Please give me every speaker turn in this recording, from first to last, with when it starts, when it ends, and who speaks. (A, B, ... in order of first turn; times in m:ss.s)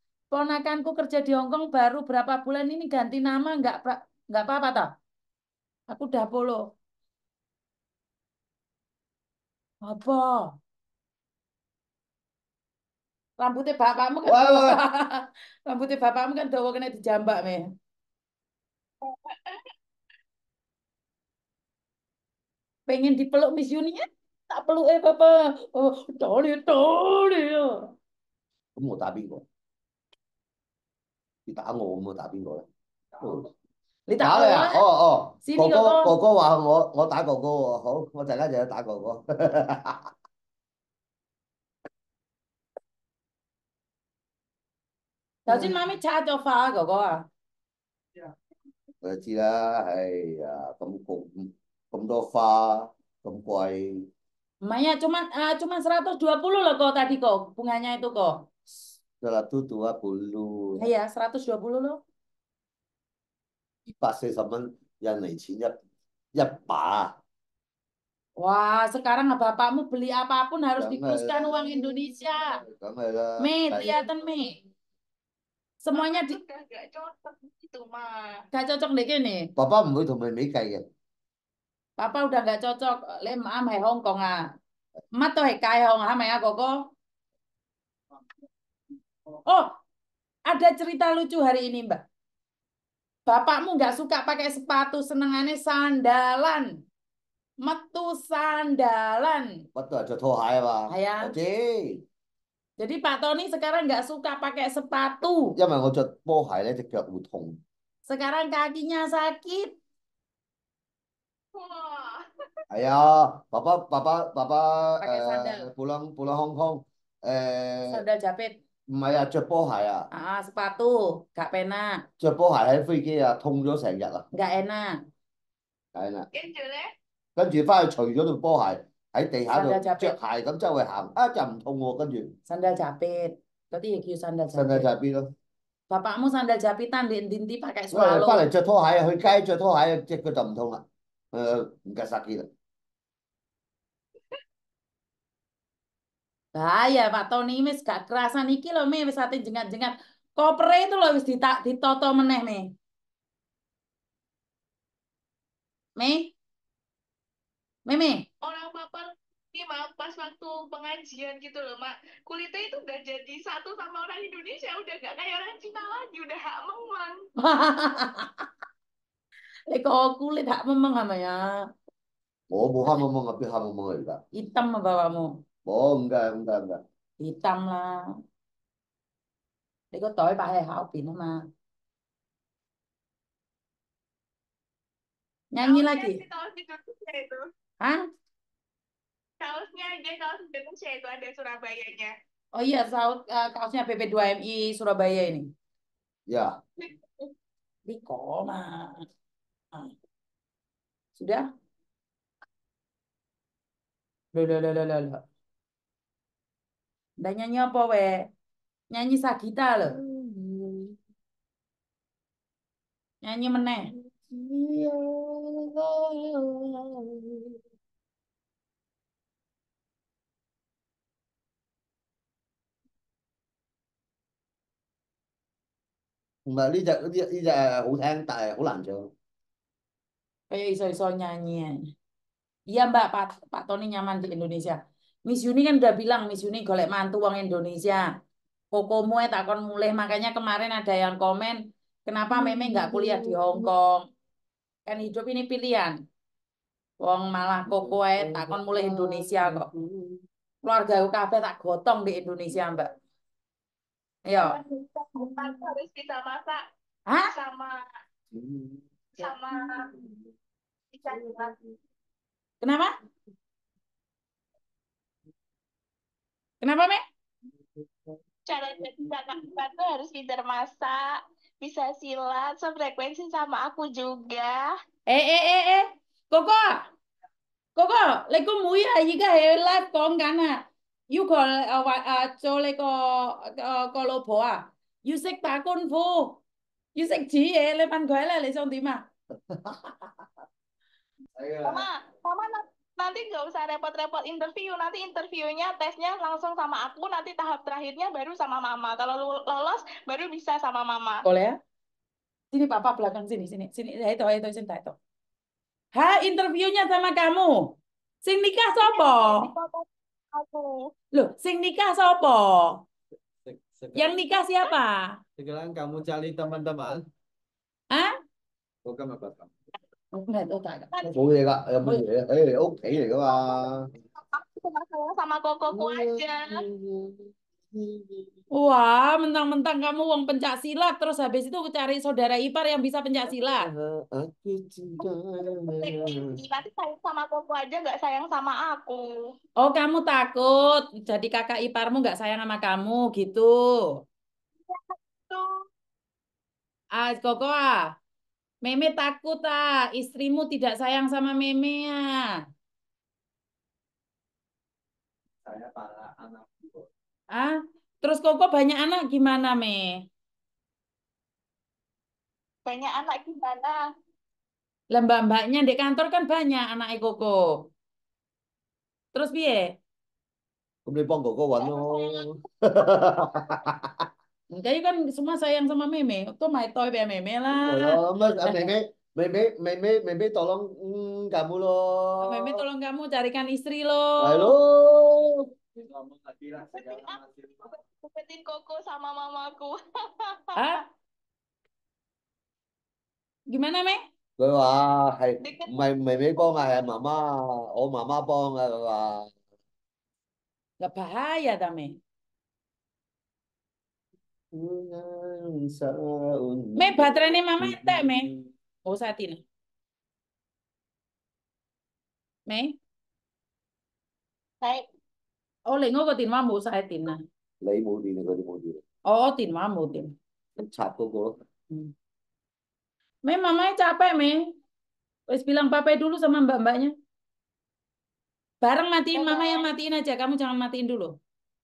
0:00.3-0:04.9 A
0:05.9-0:06.6 A
0:09.8-0:10.5 A
0:13.4-0:17.6 A
0:14.2-0:14.8 B
0:19.0-0:19.7 C
0:22.9-0:27.8 A
0:28.8-0:29.4 B
0:31.5-0:32.6 B
0:33.2-0:33.5 B
0:34.1-0:34.8 A
0:34.2-0:40.1 B
0:35.4-0:36.1 A
0:45.5-0:47.2 A
0:45.5-0:45.8 B
0:49.0-0:53.9 B
0:54.6-0:58.4 A
0:59.2-1:00.9 B
1:00.8-1:02.0 A
1:03.9-1:05.7 B
1:06.3-1:07.1 B
1:08.4-1:12.6 A
1:10.8-1:14.0 B
1:13.4-1:14.6 A
1:15.8-1:16.4 A
1:15.9-1:18.3 C
1:18.5-1:19.5 A
1:19.6-1:20.8 B
1:22.0-1:24.4 A
1:25.2-1:26.7 A
1:30.5-1:32.0 A
1:33.3-1:36.7 A
1:37.6-1:39.5 A
1:39.7-1:42.0 B
1:40.9-1:41.3 A
1:42.8-1:45.5 A
1:45.6-1:47.6 B
1:48.1-1:49.7 A
1:51.5-1:52.2 C
1:52.7-1:58.0 B
1:55.0-1:55.7 A
1:57.9-1:58.6 A
1:58.9-2:00.1 B
2:00.1-2:02.0 A
2:02.2-2:04.2 B
2:04.3-2:05.0 A
2:05.9-2:06.3 B
2:06.3-2:06.9 C
2:07.4-2:12.4 B
2:09.5-2:10.2 A
2:12.5-2:14.9 A
2:14.5-2:15.3 B
2:15.9-2:18.4 A
2:17.9-2:22.5 B
2:26.5-2:32.6 A
2:36.0-2:36.3 A
2:37.9-2:38.2 A
2:38.4-2:47.2 C
2:47.4-2:48.4 A
2:49.7-2:51.4 A
2:52.5-2:54.2 B
2:54.4-2:55.3 A
2:55.6-2:56.8 B
2:57.2-2:58.0 A
2:59.9-3:01.4 A
3:05.5-3:06.2 A
3:05.6-3:07.4 C
3:09.4-3:12.1 C
3:12.5-3:15.5 A
3:16.3-3:16.6 B
3:16.8-3:17.3 C
3:17.8-3:19.0 A
3:21.2-3:21.4 A
3:24.3-3:25.2 A
3:27.2-3:28.2 A
3:28.9-3:29.9 A
3:29.9-3:31.0 B
3:33.2-3:33.9 A
3:34.1-3:37.5 B
3:46.5-3:49.1 B
3:50.5-3:51.7 A
3:52.7-3:58.1 A
3:58.7-4:04.0 A
4:02.3-4:03.7 B
4:04.9-4:05.9 A
4:07.0-4:09.7 A
4:07.6-4:10.2 B
4:10.6-4:12.9 A
4:14.3-4:14.6 A
4:14.5-4:16.6 C
4:17.2-4:17.8 C
4:18.3-4:19.3 B
4:19.2-4:19.9 C
4:19.9-4:20.2 B
4:20.9-4:21.5 C
4:22.6-4:22.9 A
4:26.6-4:27.0 A
4:28.5-4:34.7 C
4:35.1-4:36.8 A
4:37.8-4:40.6 A
4:41.1-4:46.4 A
4:47.0-4:49.0 A
4:49.5-4:50.1 B
4:51.4-4:51.8 B
4:51.6-5:01.2 C
5:01.2-5:01.6 A
5:02.5-5:05.0 A
5:05.9-5:09.5 A
5:08.8-5:10.9 C
5:11.1-5:12.8 A
5:13.5-5:14.0 D
5:13.9-5:15.2 A
5:15.4-5:17.0 D
5:18.8-5:19.5 D
5:20.1-5:21.2 A
5:21.1-5:23.8 B
5:24.3-5:26.6 C
5:25.7-5:28.3 B
5:28.6-5:33.7 A
5:33.3-5:36.2 B
5:35.6-5:39.1 C
5:39.6-5:43.8 A
5:44.7-5:45.5 C
5:47.0-5:47.8 A
5:48.6-5:52.3 A
5:55.4-5:56.8 D
5:57.3-5:59.9 A
6:02.6-6:03.8 C
6:04.9-6:07.5 A
6:09.1-6:09.7 A
6:10.8-6:13.9 B
6:11.6-6:12.3 C
6:14.5-6:18.7 A
6:17.5-6:22.6 B
6:22.2-6:24.5 A
6:24.2-6:25.4 B
6:25.9-6:27.2 D
6:26.7-6:30.7 C
6:30.6-6:30.8 A
6:33.5-6:34.0 A
6:34.4-6:39.3 B
6:35.4-6:35.7 C
6:40.8-6:42.0 A
6:44.5-6:47.3 B
6:46.8-6:48.3 A
6:48.8-6:49.4 A
6:52.5-6:52.7 A
6:55.7-6:57.2 A
6:57.6-6:58.8 B
6:59.1-7:00.1 A
7:00.6-7:01.3 B
7:03.2-7:04.4 A
7:05.3-7:06.9 A
7:08.6-7:11.1 A
7:09.1-7:09.7 C